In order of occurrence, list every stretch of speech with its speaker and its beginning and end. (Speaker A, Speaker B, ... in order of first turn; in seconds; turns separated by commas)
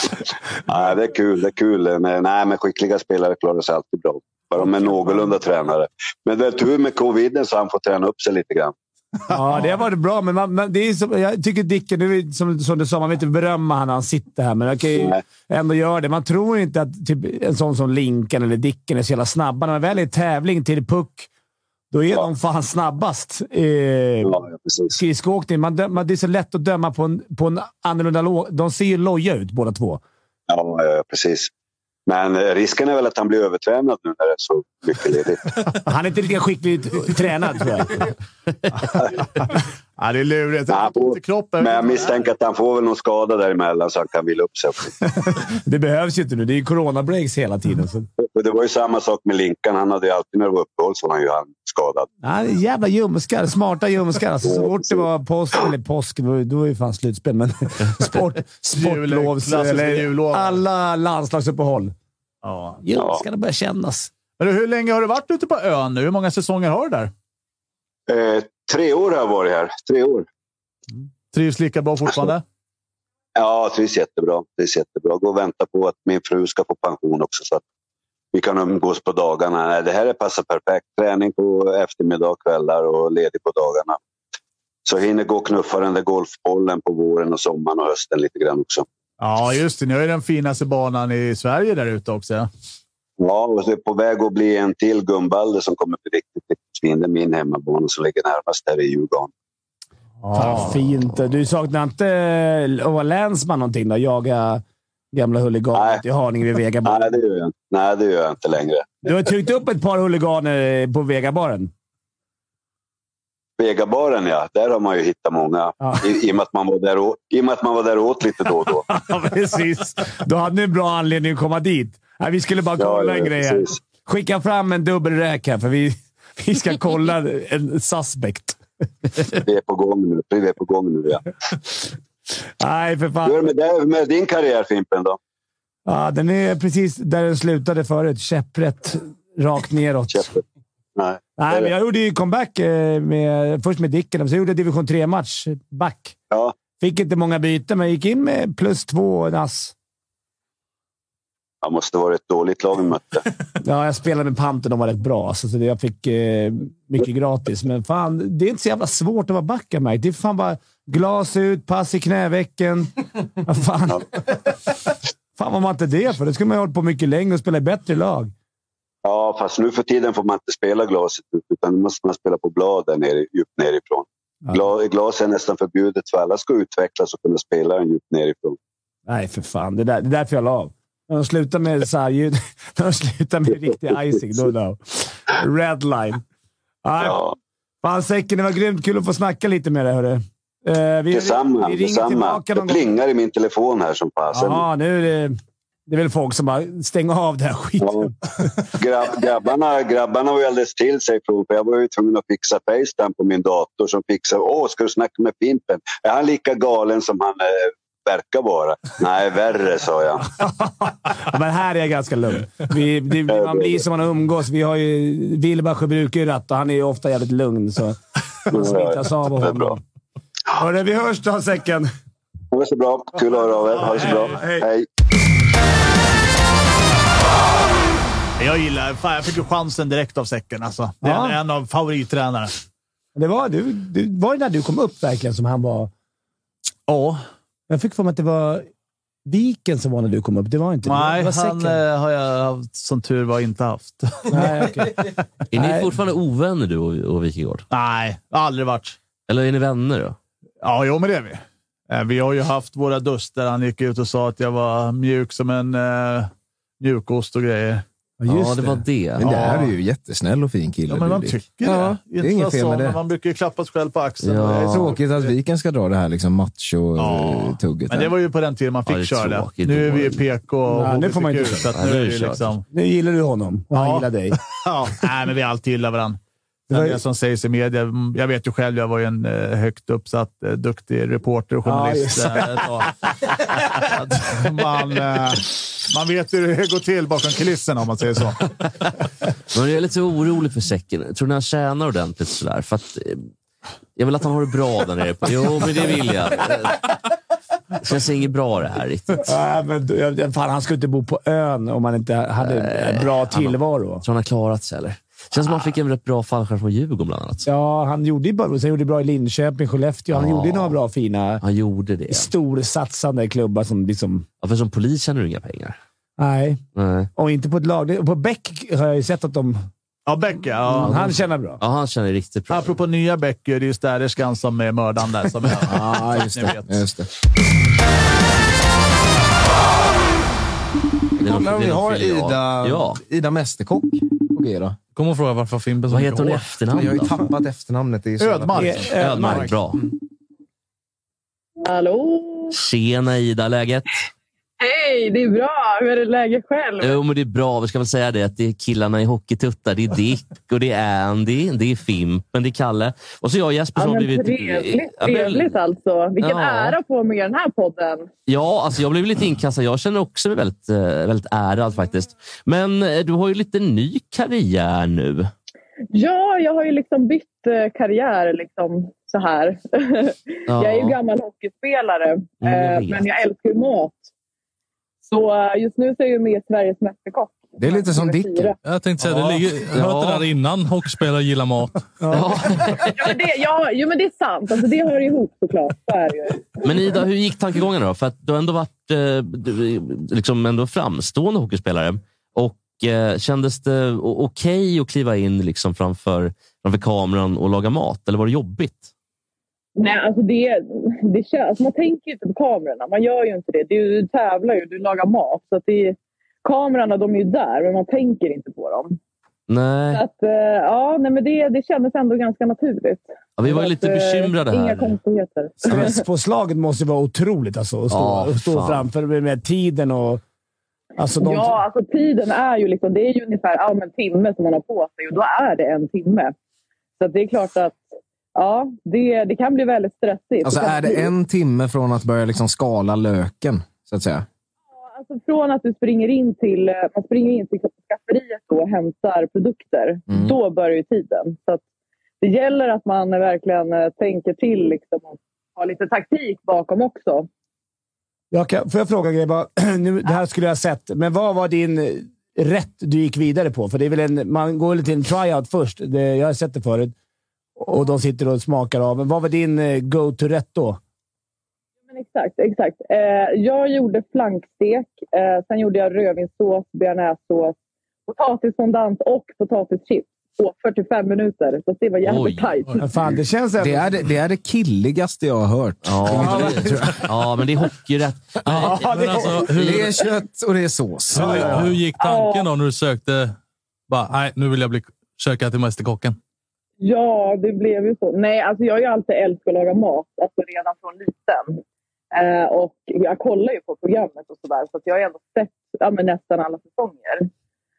Speaker A: 0.7-8.8, Speaker B: 9.3-21.3, Speaker B: 21.9-24.4, Speaker A: 24.2-25.0, Speaker B: 24.9-30.0, Speaker A: 30.5-31.5, Speaker A: 32.1-35.4, Speaker B: 35.8-38.0, Speaker C: 40.0-42.3, Speaker A: 40.7-44.9, Speaker B: 45.3-48.1, Speaker A: 48.2-52.1, Speaker B: 52.2-62.0, Speaker A: 54.4-55.0, Speaker C: 58.7-60.6, Speaker C: 62.4-62.8, Speaker B: 62.8-64.1, Speaker A: 63.0-63.2, Speaker C: 64.4-67.1, Speaker A: 68.1-70.3, Speaker C: 70.9-72.4, Speaker A: 73.4-77.6, Speaker A: 78.3-84.0, Speaker A: 84.8-88.8, Speaker C: 89.2-92.5, Speaker A: 93.2-99.3, Speaker C: 100.2-100.7, Speaker B: 100.3-107.1, Speaker A: 105.7-106.0, Speaker A: 106.8-109.0, Speaker B: 109.0-111.7, Speaker A: 113.6-118.9, Speaker B: 115.8-116.1, Speaker B: 118.9-128.6, Speaker A: 122.8-123.8, Speaker A: 129.4-131.3, Speaker B: 132.6-133.4, Speaker A: 133.2-135.2, Speaker B: 135.9-140.3, Speaker A: 140.1-140.4, Speaker A: 141.0-141.7, Speaker B: 141.4-146.2, Speaker B: 146.8-149.7, Speaker A: 151.6-153.2, Speaker B: 153.6-164.0, Speaker B: 165.4-168.3, Speaker A: 169.1-178.6, Speaker B: 179.1-186.2, Speaker B: 186.8-187.2, Speaker A: 187.0-187.3, Speaker B: 187.8-192.9, Speaker A: 191.1-194.6, Speaker B: 194.3-198.5, Speaker A: 197.8-198.1, Speaker A: 198.8-210.3, Speaker B: 210.4-219.8, Speaker A: 213.3-213.8, Speaker A: 218.5-219.8, Speaker B: 220.6-221.9, Speaker A: 222.5-224.9, Speaker C: 223.8-224.2, Speaker B: 224.0-224.7, Speaker C: 228.4-232.5, Speaker B: 231.0-231.4, Speaker B: 233.2-235.9, Speaker C: 236.9-237.2, Speaker B: 237.7-238.7, Speaker B: 239.2-241.8, Speaker C: 240.8-244.8, Speaker B: 244.3-245.9, Speaker D: 245.5-247.7, Speaker C: 247.7-249.0, Speaker D: 249.3-250.2, Speaker C: 250.6-257.8, Speaker B: 258.2-258.9, Speaker D: 258.3-259.4, Speaker E: 259.2-263.0, Speaker C: 259.2-259.7, Speaker C: 260.9-265.3, Speaker D: 264.2-265.0, Speaker E: 264.7-268.1, Speaker C: 267.0-272.6, Speaker D: 268.9-270.2, Speaker B: 270.7-271.7, Speaker D: 271.7-272.5, Speaker B: 272.7-274.4, Speaker C: 273.7-288.5, Speaker B: 276.7-277.0, Speaker B: 281.6-282.6, Speaker D: 289.5-293.3, Speaker D: 294.0-296.9, Speaker D: 297.8-299.3, Speaker B: 299.2-304.0, Speaker D: 302.4-307.5, Speaker B: 307.4-311.4, Speaker D: 310.1-310.8, Speaker D: 311.4-312.3, Speaker B: 312.1-314.3, Speaker D: 314.4-315.8, Speaker B: 316.2-316.6, Speaker D: 316.8-317.1, Speaker B: 317.2-319.7, Speaker C: 320.1-321.2, Speaker B: 320.7-321.6, Speaker D: 321.6-322.8, Speaker C: 322.5-326.9, Speaker E: 325.7-327.1, Speaker D: 331.2-333.0, Speaker E: 331.2-334.8, Speaker F: 334.9-336.4, Speaker D: 335.9-337.2, Speaker E: 336.7-339.4, Speaker C: 338.2-339.6, Speaker B: 338.6-339.4, Speaker D: 339.0-339.8, Speaker G: 341.6-342.6, Speaker D: 342.5-343.9, Speaker G: 344.6-347.0, Speaker D: 346.8-355.6, Speaker G: 353.8-358.1, Speaker D: 356.2-356.8, Speaker D: 358.3-365.3, Speaker G: 365.9-374.1, Speaker D: 370.5-371.0, Speaker D: 372.4-373.1, Speaker G: 375.1-378.6, Speaker E: 377.6-378.5, Speaker F: 378.6-381.9, Speaker D: 379.1-380.3, Speaker D: 382.0-383.2, Speaker G: 383.0-386.5, Speaker D: 386.6-398.9, Speaker G: 399.8-409.0, Speaker D: 409.5-410.0, Speaker G: 409.9-416.0, Speaker D: 413.4-415.0, Speaker B: 415.7-420.2, Speaker D: 417.9-418.9, Speaker B: 421.0-421.6, Speaker G: 421.2-426.4, Speaker G: 427.0-431.1, Speaker E: 430.4-434.3, Speaker G: 434.7-441.6, Speaker E: 440.1-440.4, Speaker G: 442.2-447.3, Speaker B: 448.3-456.9, Speaker B: 457.6-460.8, Speaker G: 461.9-472.8, Speaker D: 472.0-472.6, Speaker B: 472.8-473.9, Speaker E: 473.6-477.1, Speaker D: 475.8-479.1, Speaker B: 476.1-476.6, Speaker B: 478.6-479.5, Speaker F: 478.9-479.9, Speaker E: 479.5-481.7, Speaker C: 481.1-481.7, Speaker F: 481.2-483.4, Speaker G: 482.0-482.5, Speaker F: 483.9-486.2, Speaker G: 486.8-491.6, Speaker G: 492.1-497.3